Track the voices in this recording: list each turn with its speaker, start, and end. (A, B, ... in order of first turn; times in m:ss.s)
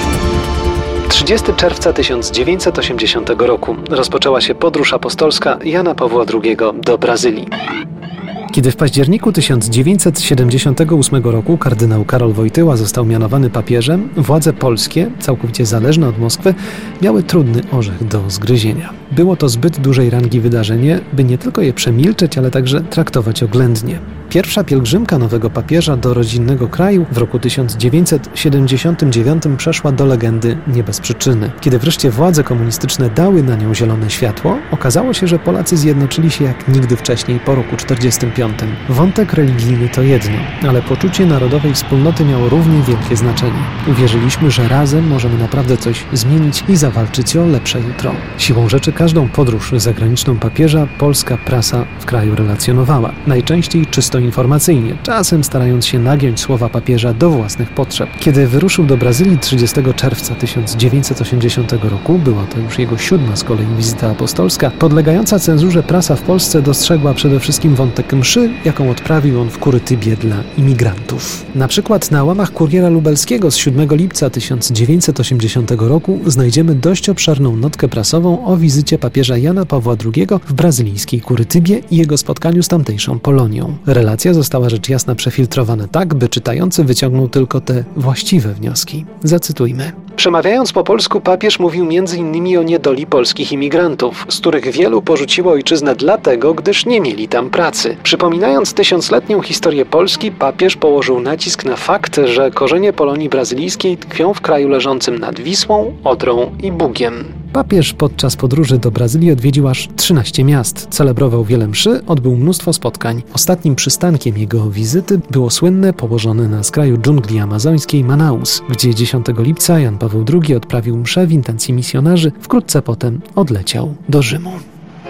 0:01.1-0:07.5 A
0:08.5-2:04.6 A